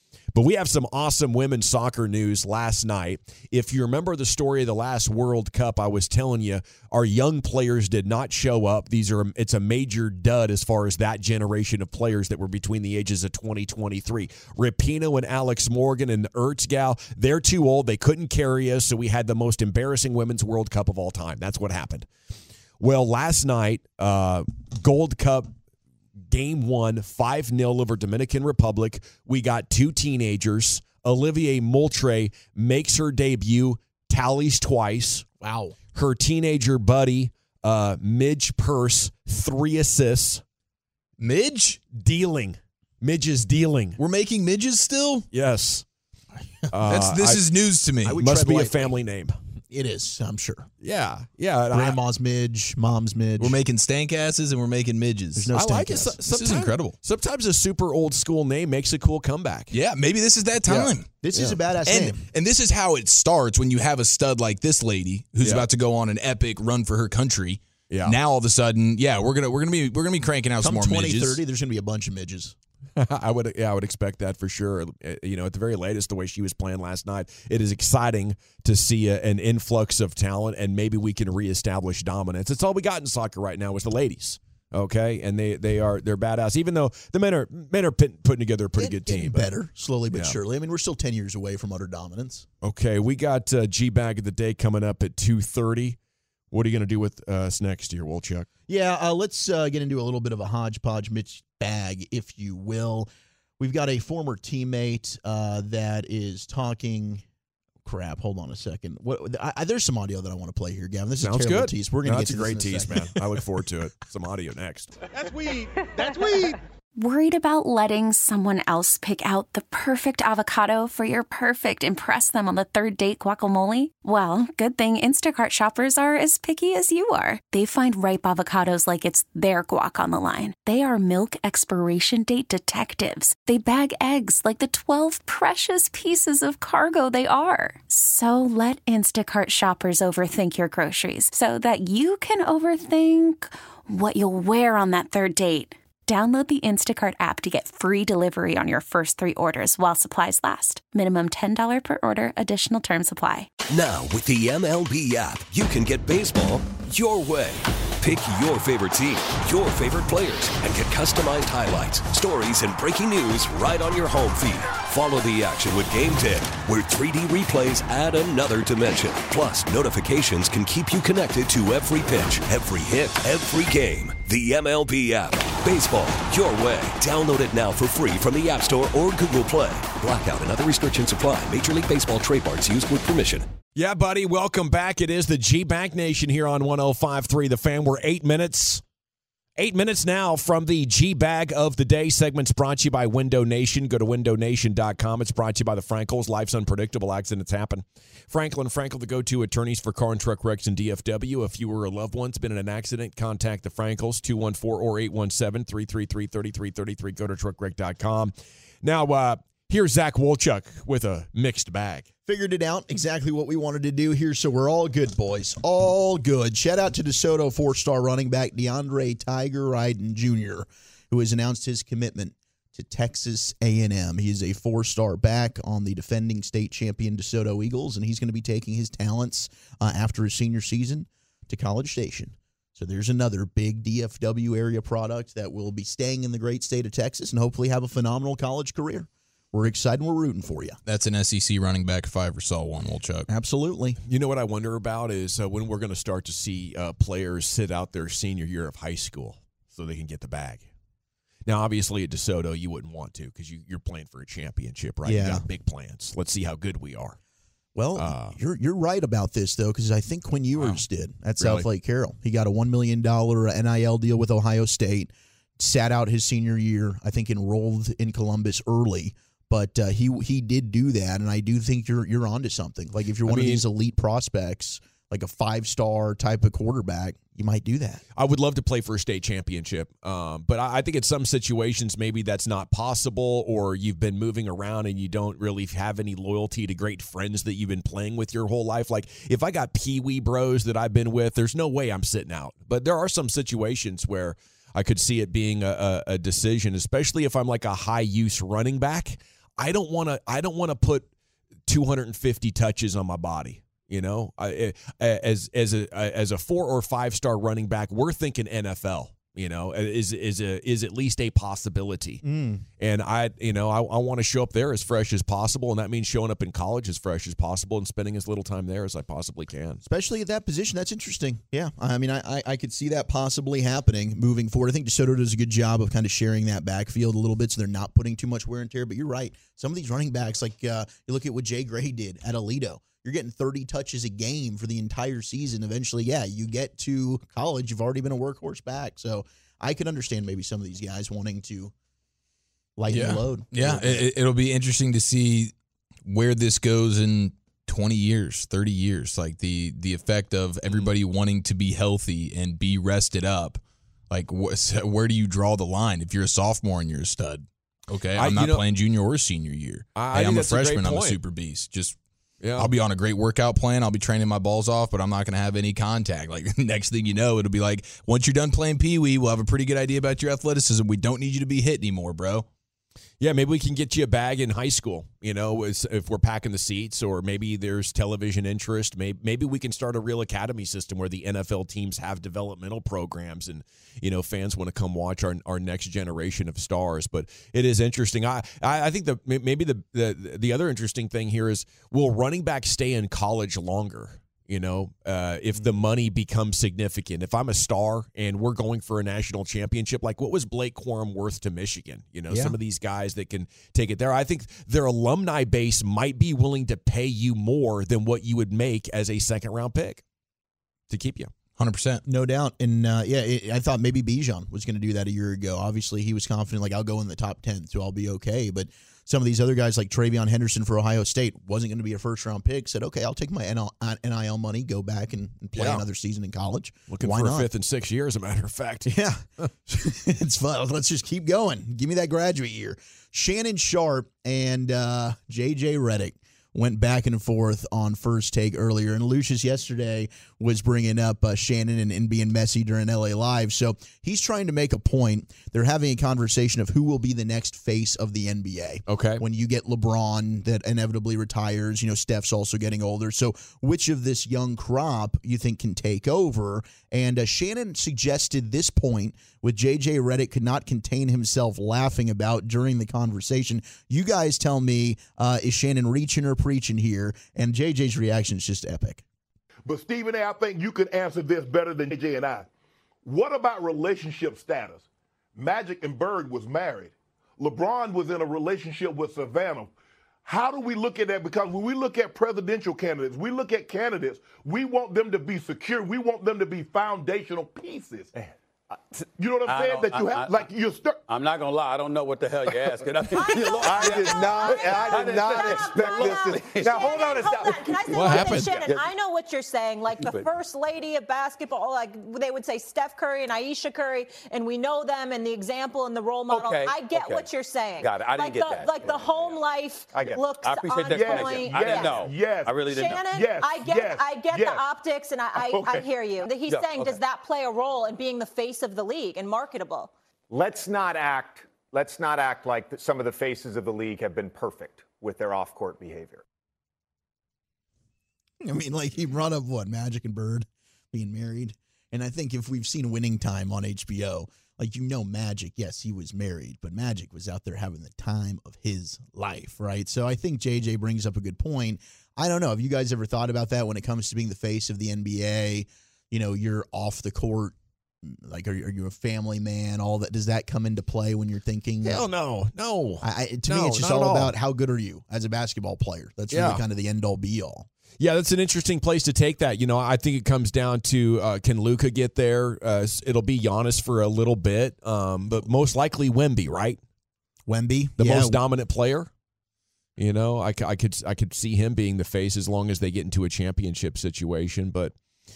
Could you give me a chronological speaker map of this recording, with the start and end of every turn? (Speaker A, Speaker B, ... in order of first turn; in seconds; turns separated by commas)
Speaker A: 0.3-22.1, Speaker A: 22.8-25.5, Speaker A: 26.3-35.2, Speaker B: 35.4-35.8, Speaker A: 35.9-40.4, Speaker C: 41.2-41.8, Speaker A: 41.9-44.0, Speaker C: 44.0-45.3, Speaker A: 45.3-45.8, Speaker A: 46.7-47.4, Speaker C: 46.8-48.2, Speaker A: 48.0-49.4, Speaker B: 48.0-49.0, Speaker B: 49.7-50.7, Speaker A: 50.8-52.0, Speaker B: 51.7-53.6, Speaker C: 53.4-55.5, Speaker B: 55.4-56.2, Speaker A: 55.5-59.7, Speaker C: 56.2-56.9, Speaker C: 59.7-61.1, Speaker A: 60.7-61.6, Speaker B: 61.2-62.2, Speaker C: 61.9-71.4, Speaker A: 65.4-65.7, Speaker A: 67.9-68.2, Speaker B: 70.6-72.5, Speaker A: 73.0-89.5, Speaker B: 88.8-92.5, Speaker A: 90.1-90.4, Speaker A: 92.6-96.0, Speaker A: 96.5-98.5, Speaker B: 98.7-107.2, Speaker B: 107.8-113.2, Speaker A: 111.2-114.9, Speaker D: 115.1-116.6, Speaker E: 117.0-153.5, Speaker F: 153.7-183.5, Speaker A: 183.8-188.8, Speaker A: 189.6-212.1, Speaker B: 212.3-240.8, Speaker C: 240.8-243.3, Speaker B: 243.3-244.0, Speaker A: 244.1-250.7, Speaker A: 251.4-257.2, Speaker B: 255.0-255.4, Speaker B: 257.7-278.0, Speaker A: 258.0-258.4, Speaker A: 260.6-260.8, Speaker A: 261.4-261.7, Speaker A: 273.2-273.6, Speaker A: 278.1-301.1, Speaker A: 301.7-312.2, Speaker B: 312.2-312.6, Speaker A: 312.8-319.8, Speaker B: 319.8-341.7, Speaker B: 342.8-344.1, Speaker C: 342.9-345.5, Speaker C: 346.0-362.0, Speaker A: 358.1-358.6, Speaker A: 359.9-361.2, Speaker A: 362.4-362.7, Speaker C: 362.6-372.4, Speaker A: 373.2-410.0, Speaker B: 402.3-402.6, Speaker A: 410.9-411.3, Speaker C: 411.6-412.0, Speaker B: 412.1-427.5, Speaker A: 425.5-425.8, Speaker A: 426.9-429.5, Speaker B: 428.9-469.0, Speaker A: 448.9-449.2, Speaker D: 469.6-472.5, Speaker D: 473.0-474.8, Speaker D: 475.4-479.7, Speaker D: 480.2-488.2, Speaker D: 489.2-491.0, Speaker G: 489.4-490.5, Speaker G: 491.1-496.8, Speaker D: 492.5-492.8, Speaker H: 493.2-512.0, Speaker D: 493.3-498.7, Speaker I: 493.6-498.7, Speaker G: 500.0-500.3, Speaker G: 506.3-507.3, Speaker G: 507.8-509.3, Speaker I: 507.9-509.1, Speaker I: 509.9-510.2, Speaker G: 510.4-513.0, Speaker D: 510.8-514.6, Speaker I: 510.9-511.8, Speaker H: 512.6-519.9, Speaker I: 515.5-515.8, Speaker I: 520.3-526.2, Speaker B: 528.4-552.0, Speaker A: 551.8-554.3, Speaker B: 553.0-557.7, Speaker A: 556.3-556.6, Speaker A: 558.0-566.8, Speaker B: 567.5-568.4, Speaker A: 568.0-569.1, Speaker A: 570.0-574.9